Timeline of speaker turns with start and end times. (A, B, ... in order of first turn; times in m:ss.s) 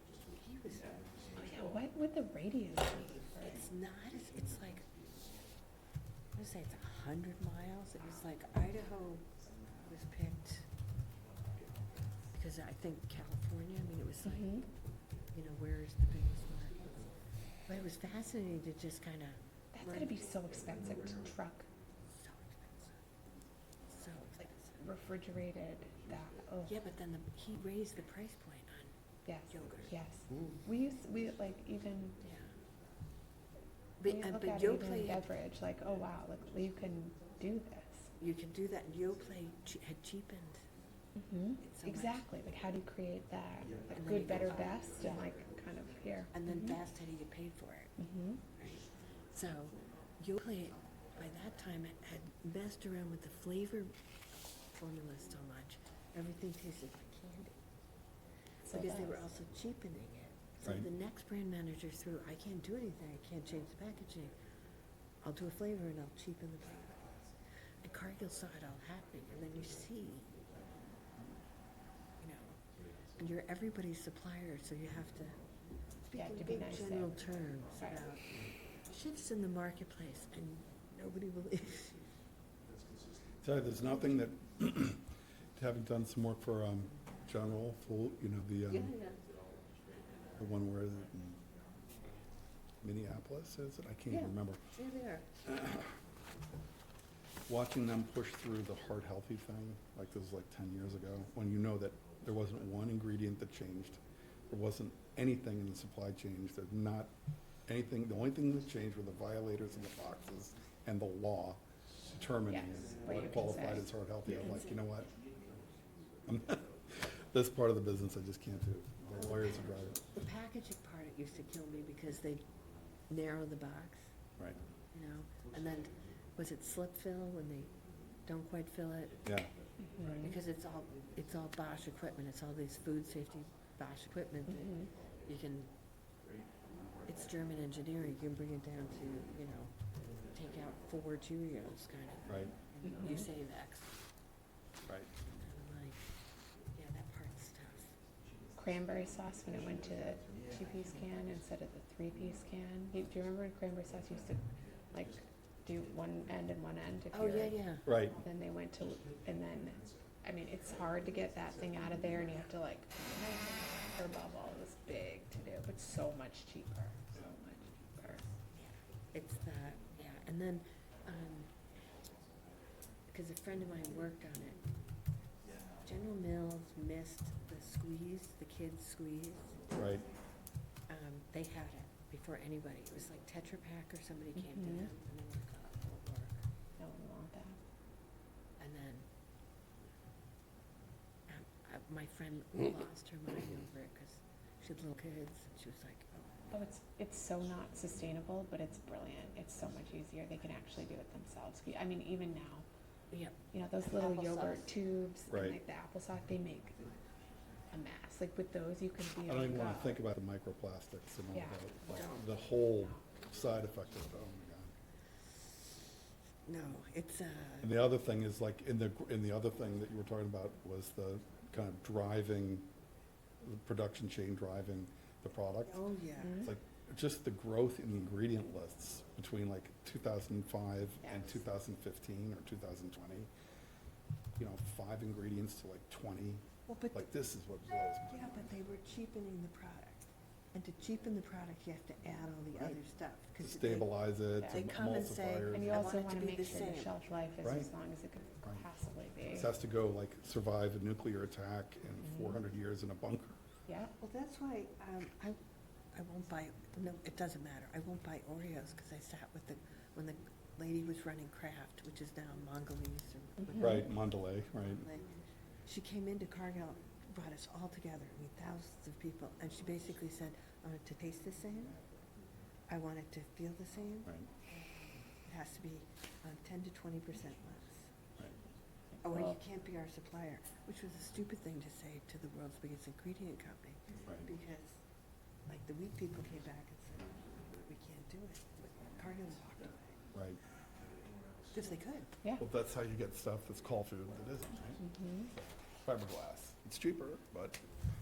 0:00.3-0:01.0 A
0:01.4-0:03.6 B
0:03.4-0:04.9 A
0:06.3-0:09.3 A
0:09.8-0:10.7 A
0:12.3-0:14.6 A
0:14.2-0:14.6 B
0:15.3-0:17.1 A
0:17.7-0:20.1 A
0:19.7-0:21.6 B
0:22.1-0:22.9 A
0:23.9-0:24.8 A
0:24.8-0:26.7 B
0:26.6-0:28.9 A
0:29.2-0:32.2 B
0:29.5-0:30.5 A
0:32.2-0:32.5 A
0:34.0-0:35.2 A
0:34.0-0:38.1 B
0:38.2-0:40.6 A
0:41.2-0:46.8 B
0:41.6-0:42.2 A
0:43.9-0:45.2 A
0:46.3-0:47.9 A
0:48.0-0:48.4 B
0:48.6-0:53.9 A
0:54.7-0:57.6 A
0:58.6-0:59.2 B
0:58.7-1:04.3 A
1:05.2-1:07.2 A
1:07.8-1:10.3 A
1:12.2-1:12.6 A
1:13.2-1:15.4 A
1:16.0-1:22.0 A
1:16.1-1:17.2 B
1:23.4-1:25.0 C
1:25.6-1:28.9 C
1:28.7-1:29.2 A
1:30.4-1:31.4 C
1:32.8-1:34.6 C
1:34.1-1:35.3 A
1:35.4-1:35.9 C
1:37.5-1:47.1 C
1:47.7-1:51.6 C
1:52.1-1:55.1 C
1:52.5-1:54.6 B
1:56.3-2:00.0 C
1:59.1-2:02.4 A
2:03.1-2:04.0 A
2:04.9-2:07.7 A
2:08.2-2:09.2 A
2:09.2-2:09.5 C
2:09.8-2:10.3 B
2:10.1-2:15.7 A
2:14.5-2:14.9 B
2:17.1-2:19.7 A
2:20.3-2:23.9 A
2:22.3-2:22.5 C
2:24.8-2:25.1 C
2:25.3-2:26.0 A
2:26.7-2:27.9 A
2:28.6-2:48.2 B
2:37.1-2:37.9 A
2:37.8-2:38.2 C
2:48.5-2:51.5 A
2:53.1-2:54.6 A
2:55.8-2:59.6 A
2:59.7-3:00.0 C
3:00.9-3:06.4 A
3:04.4-3:04.9 B
3:06.8-3:07.6 B
3:08.6-3:09.0 A
3:11.3-3:16.2 A
3:16.5-3:22.6 B
3:23.1-3:24.7 A
3:23.5-3:26.8 B
3:25.3-3:25.6 C
3:27.7-3:30.0 B
3:29.2-3:34.7 C
3:31.3-3:33.0 B
3:36.4-3:37.8 A
3:37.6-3:42.7 C
3:43.4-3:45.8 C
3:45.6-3:46.5 A
3:46.2-3:46.5 B
3:46.4-3:53.3 C
3:51.0-3:51.4 B
3:54.4-3:58.6 C
3:56.7-3:57.0 A
3:58.1-4:06.9 A
4:02.5-4:02.8 C
4:03.4-4:05.9 C
4:04.4-4:09.5 B
4:07.4-4:07.7 C
4:09.3-4:13.4 C
4:14.0-4:15.4 A
4:15.9-4:24.0 A
4:23.4-4:23.8 B
4:23.6-4:24.8 C
4:24.6-4:25.1 A
4:25.6-4:31.8 A
4:32.7-4:37.9 A
4:38.9-4:39.4 B
4:39.0-4:44.8 A
4:45.5-4:49.8 A
4:50.1-4:50.4 C
4:51.5-4:52.1 A
4:52.4-4:57.6 C
4:54.8-4:55.3 B